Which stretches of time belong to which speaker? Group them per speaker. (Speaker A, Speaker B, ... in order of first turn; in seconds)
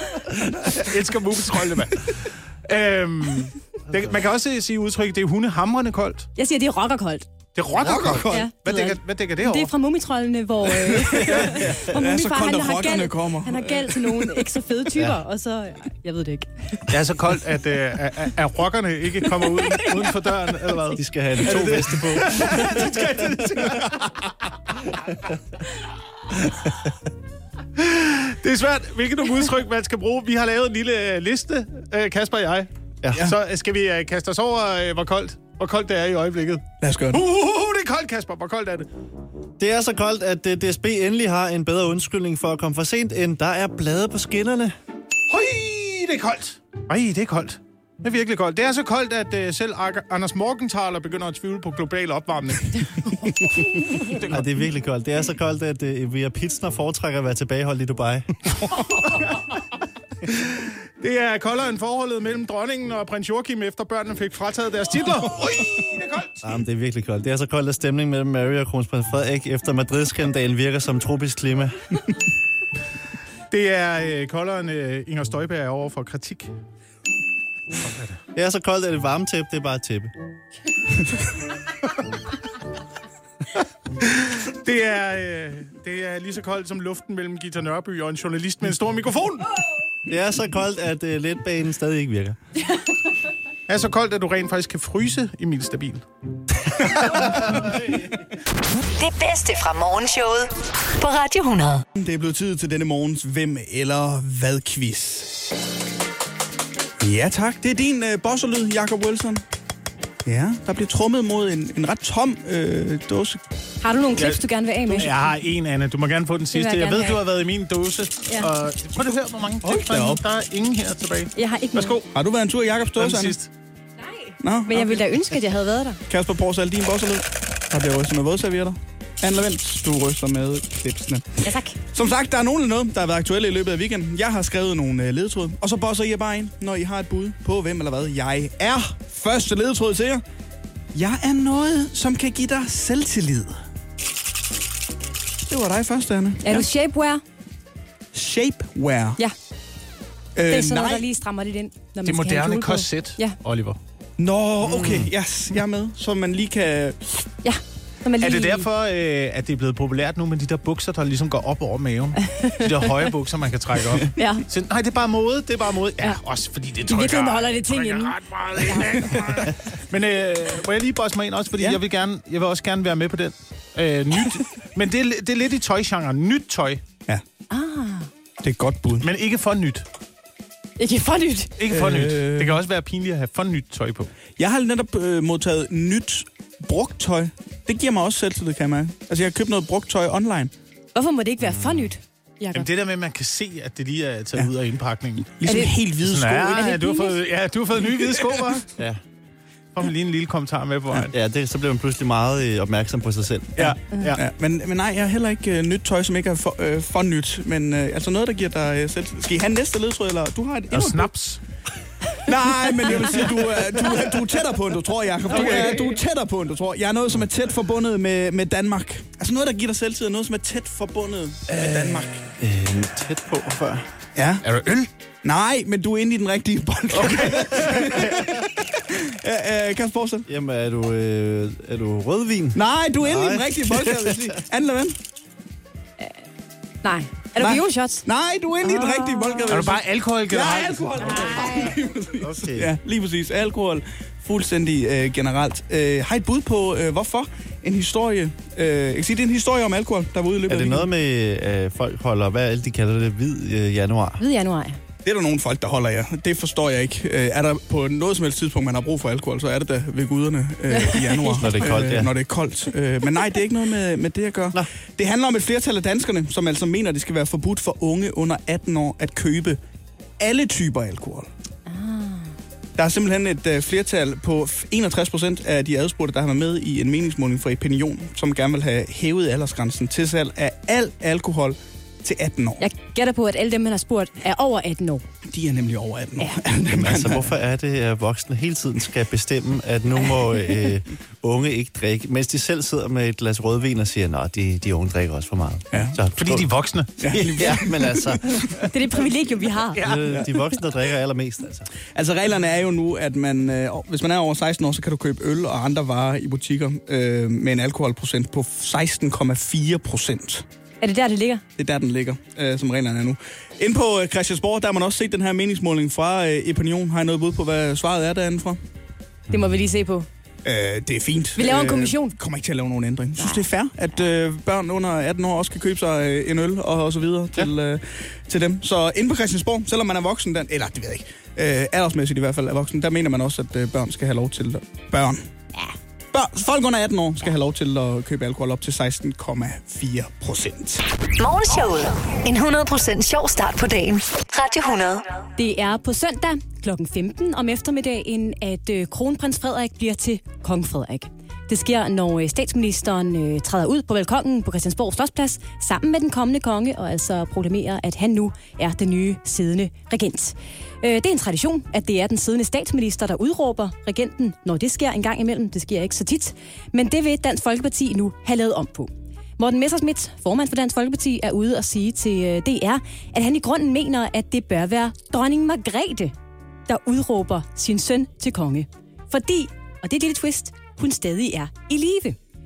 Speaker A: 0.3-6.3, 7.5-9.7, 16.9-25.0, 27.8-38.9, 45.3-54.5, 58.9-59.4, 60.3-66.5, 73.5-76.5, 77.7-78.2, 84.0-89.5, 93.7-96.0, 96.8-97.6, 114.2-122.1, 123.0-123.5, 152.1-153.8, 158.2-176.8, 179.0-179.9, 181.6-184.1, 192.5-195.3, 196.0-198.7, 199.7-201.1, 203.6-204.2, 210.7-211.4, 215.4-215.8, 224.4-224.9, 227.1-228.0, 239.5-241.6, 296.2-297.6, 299.7-300.1
Speaker B: 6.4-7.3, 8.2-16.9, 19.4-20.1, 113.8-115.1, 116.5-117.2, 121.4-122.0, 124.0-126.0, 131.4-131.8, 146.4-147.2, 150.5-153.4, 157.4-158.7, 162.3-162.7, 164.2-164.4, 166.9-169.0, 177.5-178.1, 180.8-181.5, 190.9-192.7, 195.4-195.7, 196.5-197.2, 236.8-238.1, 238.6-239.6, 241.1-241.8, 254.2-254.8, 260.7-261.5, 271.7-272.3, 282.6-285.0, 298.7-300.0, 310.8-311.4, 319.3-320.1, 321.4-322.2, 323.2-323.5, 345.4-376.1, 376.7-382.2
Speaker C: 7.8-8.5, 10.8-14.5, 36.8-37.2, 102.0-105.4, 107.0-109.4, 110.2-113.4, 119.6-120.2, 122.1-123.4, 124.4-125.1, 126.1-140.2, 140.9-143.6, 145.5-146.7, 148.1-149.2, 150.3-151.1, 154.2-157.3, 178.4-179.1, 181.7-182.6, 184.4-190.5, 195.4-196.7, 203.6-211.1, 212.2-222.3, 224.2-224.4, 225.2-230.3, 232.6-235.0, 237.4-250.9, 255.0-269.6, 270.2-271.3, 272.8-282.6, 285.3-287.3, 295.7-296.0, 297.0-298.2, 301.9-310.4, 311.6-318.6, 320.4-335.3, 336.1-340.9
Speaker D: 14.9-15.2, 20.9-23.0, 33.0-33.3, 39.6-44.7, 54.3-58.7, 66.4-72.0, 78.3-80.1, 90.1-92.4, 154.6-155.1, 191.4-191.9, 198.8-199.0, 201.1-203.7, 222.4-223.9, 230.3-234.4, 242.2-242.7, 250.5-254.2, 261.4-262.1, 286.7-296.5, 297.1-298.7, 299.8-301.7, 319.3-319.6
Speaker E: 99.0-101.8, 341.2-345.1